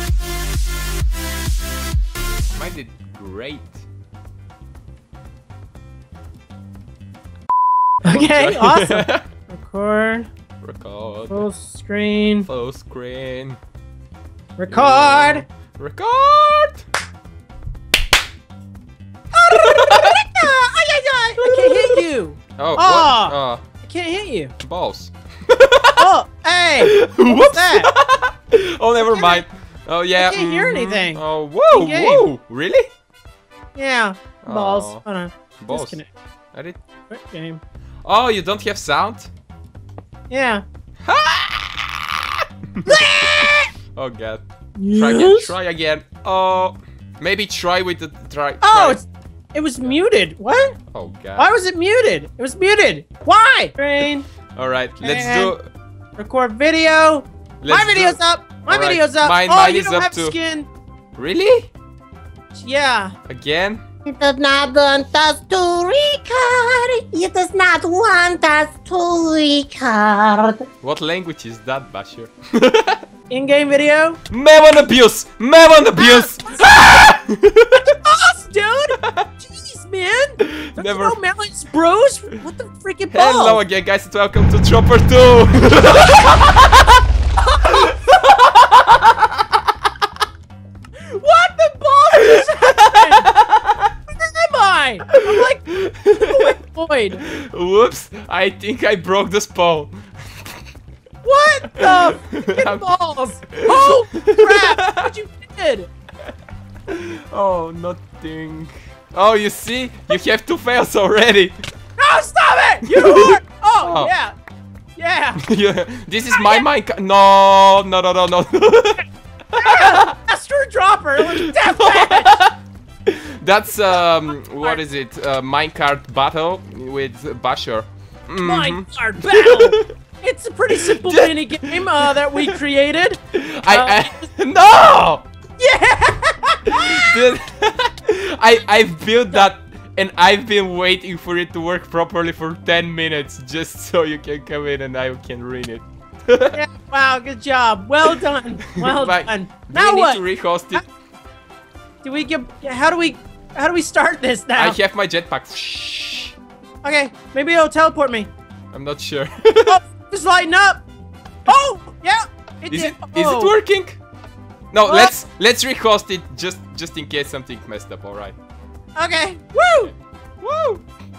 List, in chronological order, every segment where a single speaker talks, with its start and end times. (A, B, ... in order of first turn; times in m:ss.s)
0:02.5-0:03.8 A
0:08.0-0:10.3 B
0:08.0-0:09.2 A
0:10.6-0:11.4 A
0:11.3-0:12.5 B
0:12.4-0:13.6 A
0:14.6-0:15.4 B
0:14.7-0:16.8 A
0:19.3-0:24.5 B
0:19.5-0:20.3 A
0:21.4-0:22.0 A
0:22.6-0:23.6 A
0:24.6-0:26.1 A
0:26.0-0:27.9 B
0:26.8-0:32.9 A
0:29.0-0:29.4 B
0:30.2-0:32.3 B
0:33.8-0:36.1 B
0:34.4-0:35.0 A
0:35.6-0:36.0 A
0:37.1-0:37.6 B
0:38.0-0:39.3 A
0:40.3-0:40.6 B
0:41.0-0:49.0 A
0:42.8-0:43.7 B
0:44.8-0:45.5 B
0:48.6-0:50.8 B
0:50.9-0:51.5 A
0:51.4-0:54.3 B
0:54.6-0:55.7 A
0:55.0-0:55.5 B
0:56.2-1:00.7 B
0:57.6-1:00.4 A
1:01.2-1:01.7 A
1:02.5-1:03.2 B
1:03.3-1:03.8 A
1:04.1-1:10.7 C
1:10.8-1:13.0 A
1:13.3-1:14.2 B
1:14.3-1:17.9 A
1:16.0-1:16.9 B
1:17.8-1:23.6 B
1:20.4-1:21.2 A
1:23.1-1:27.0 A
1:27.6-1:27.9 B
1:27.6-1:29.4 A
1:31.0-1:33.3 B
1:32.2-1:33.9 A
1:34.1-1:37.2 B
1:35.2-1:36.6 A
1:37.2-1:40.6 A
1:41.2-1:45.9 B
1:41.7-1:42.9 A
1:43.6-1:45.1 A
1:46.9-1:51.6 A
1:52.0-1:54.4 B
1:52.9-1:54.1 A
1:55.0-1:55.4 B
1:55.4-2:00.1 A
1:56.3-1:56.6 B
1:59.6-2:02.4 B
2:01.2-2:09.9 A
2:08.4-2:14.2 B
2:10.8-2:12.6 A
2:13.3-2:15.2 A
2:15.6-2:17.2 B
2:16.7-2:26.6 A
2:26.5-2:30.2 B
2:28.0-2:30.8 A
2:32.0-2:34.8 B
2:34.6-2:36.4 A
2:36.8-2:38.3 B
2:38.7-2:39.8 A
2:39.7-2:40.8 B
2:41.5-2:43.6 B
2:42.7-2:44.0 A
2:44.7-2:48.4 A
2:44.8-2:45.2 B
2:49.0-2:49.9 B
2:50.4-2:50.8 A